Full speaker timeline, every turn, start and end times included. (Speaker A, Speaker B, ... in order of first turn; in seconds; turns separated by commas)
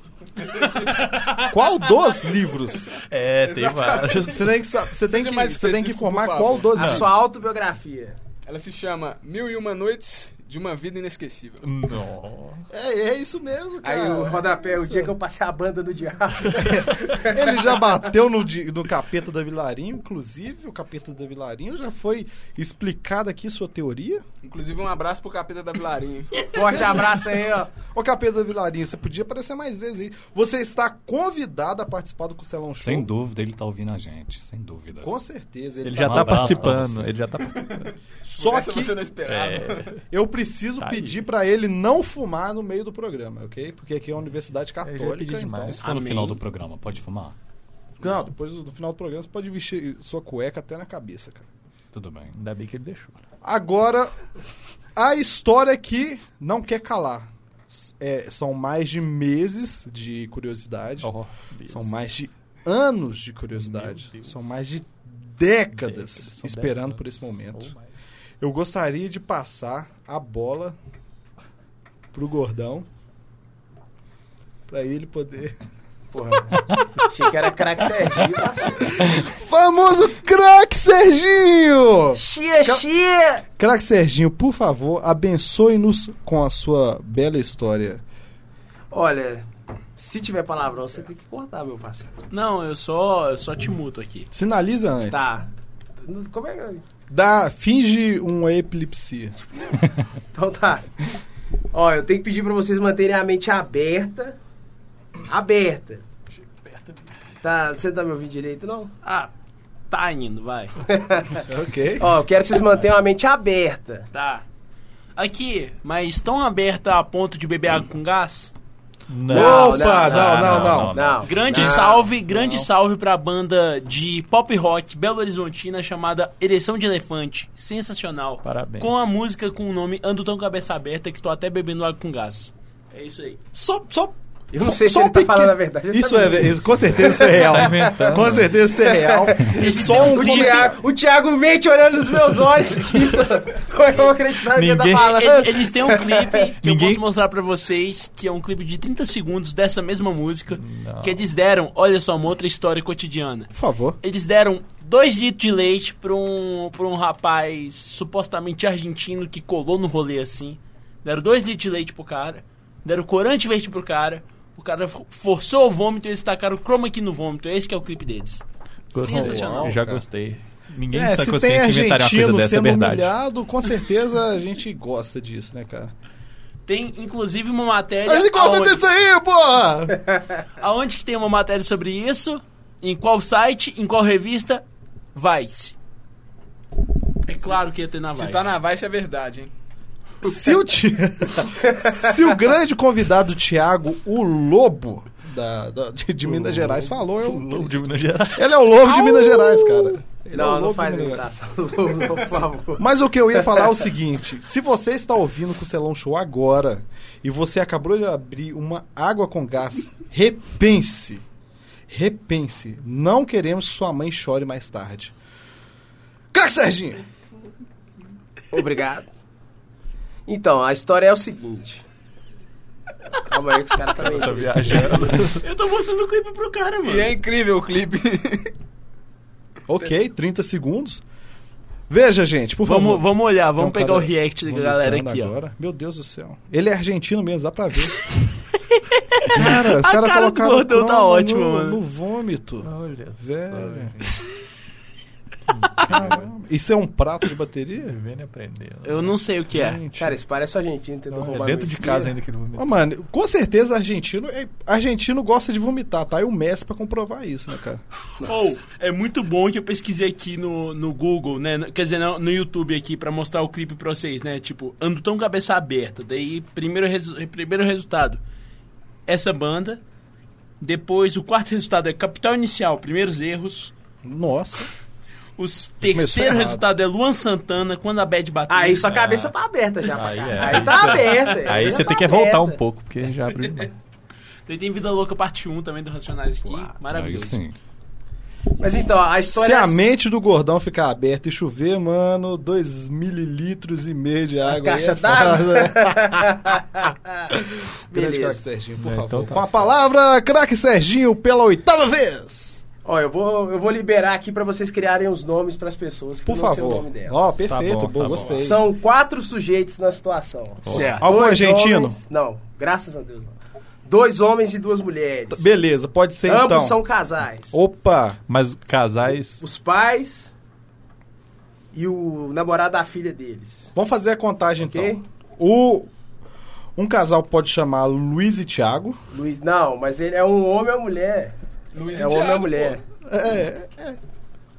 Speaker A: 0.6-1.0, Speaker B: 1.4-2.9, Speaker C: 3.1-4.5, Speaker A: 3.4-4.4, Speaker B: 4.2-7.1, Speaker A: 5.0-6.8, Speaker C: 6.8-7.0, Speaker D: 6.8-8.2, Speaker A: 8.5-11.7, Speaker C: 11.6-12.7, Speaker B: 12.7-15.1, Speaker D: 13.8-17.8, Speaker B: 16.5-24.2, Speaker A: 24.4-26.7, Speaker D: 26.5-27.7, Speaker B: 26.7-27.2, Speaker B: 27.8-33.1, Speaker E: 32.8-35.2, Speaker B: 35.0-36.9, Speaker C: 35.8-37.9, Speaker E: 35.9-37.1, Speaker A: 37.6-40.0, Speaker B: 38.2-39.1, Speaker C: 39.3-40.0, Speaker B: 40.1-45.8, Speaker C: 40.8-41.2, Speaker C: 44.8-45.8, Speaker E: 45.8-47.4, Speaker F: 45.8-46.4, Speaker B: 48.0-51.5, Speaker E: 51.9-52.3, Speaker C: 52.3-53.2, Speaker B: 53.4-54.1, Speaker B: 55.0-61.1, Speaker C: 61.0-62.1, Speaker B: 61.7-67.7, Speaker C: 63.6-64.3, Speaker C: 65.8-67.9, Speaker B: 68.4-70.8, Speaker B: 72.1-72.9, Speaker B: 74.7-75.6, Speaker D: 76.1-79.1, Speaker B: 78.2-82.8, Speaker D: 82.2-83.5, Speaker B: 83.6-88.0, Speaker D: 88.9-92.1, Speaker F: 92.3-94.3, Speaker B: 94.3-95.3, Speaker D: 95.1-95.5, Speaker D: 96.0-96.8, Speaker B: 97.1-99.4, Speaker D: 100.3-101.1, Speaker D: 101.7-104.4, Speaker D: 105.2-106.0, Speaker C: 106.6-107.0, Speaker D: 107.4-108.9, Speaker F: 109.0-109.3, Speaker F: 109.9-110.8, Speaker D: 110.9-111.4, Speaker B: 111.4-112.1, Speaker D: 112.0-114.1, Speaker F: 114.1-114.5, Speaker F: 115.2-118.5, Speaker C: 119.1-121.7, Speaker B: 119.3-121.1, Speaker D: 119.3-122.1, Speaker F: 121.2-133.4, Speaker C: 128.4-129.0, Speaker B: 133.5-140.8, Speaker D: 134.5-146.5, Speaker C: 136.7-138.6, Speaker F: 139.5-140.7, Speaker C: 144.5-145.2, Speaker F: 144.9-169.8, Speaker C: 146.6-147.0, Speaker C: 150.6-151.2, Speaker B: 153.5-154.0, Speaker C: 168.9-173.1, Speaker B: 169.0-170.1, Speaker B: 170.9-175.9, Speaker F: 176.7-178.9, Speaker B: 178.1-180.0, Speaker F: 180.6-184.6, Speaker F: 185.2-185.8, Speaker F: 187.2-188.5, Speaker A: 188.1-189.5, Speaker B: 190.2-197.8, Speaker D: 191.7-192.0, Speaker C: 196.2-198.5, Speaker B: 198.3-201.2, Speaker D: 198.9-202.8, Speaker B: 202.8-211.2, Speaker B: 211.9-215.1, Speaker B: 216.3-217.0, Speaker D: 218.5-219.1, Speaker D: 220.3-221.8, Speaker D: 223.2-225.2, Speaker C: 223.9-225.4, Speaker F: 225.3-227.1, Speaker A: 226.8-228.5, Speaker B: 229.7-231.0, Speaker B: 231.9-238.0, Speaker F: 232.7-235.4, Speaker F: 238.7-241.8, Speaker B: 239.3-243.9, Speaker C: 242.6-244.2, Speaker C: 245.5-246.3, Speaker B: 245.9-248.0, Speaker C: 247.8-249.2, Speaker F: 248.8-249.8, Speaker B: 249.5-250.2, Speaker D: 250.0-252.2, Speaker C: 251.1-252.7, Speaker B: 252.6-257.8, Speaker F: 258.2-268.2, Speaker F: 269.1-269.8, Speaker F: 270.6-273.7, Speaker B: 274.0-274.7, Speaker F: 275.4-278.9, Speaker B: 275.8-276.6, Speaker D: 278.5-282.6, Speaker C: 278.9-279.3, Speaker C: 279.9-283.7, Speaker F: 284.5-287.4, Speaker E: 286.9-287.6, Speaker F: 288.6-288.9, Speaker D: 288.6-289.8, Speaker B: 289.3-296.4, Speaker D: 294.4-297.4, Speaker B: 297.3-302.6, Speaker D: 297.9-298.4, Speaker C: 298.8-299.7, Speaker D: 302.8-307.4, Speaker B: 306.2-308.6, Speaker C: 307.5-308.6, Speaker D: 308.4-315.5, Speaker C: 310.6-311.0, Speaker F: 310.7-311.1, Speaker B: 310.8-312.0, Speaker B: 315.3-316.8, Speaker D: 316.3-317.6, Speaker B: 317.5-318.2, Speaker C: 318.3-319.4, Speaker D: 319.4-320.3, Speaker D: 321.7-323.7, Speaker B: 323.8-325.9, Speaker D: 324.6-325.0, Speaker B: 326.8-329.0, Speaker D: 329.1-331.4, Speaker A: 331.7-332.8, Speaker D: 331.9-332.8, Speaker B: 333.1-334.0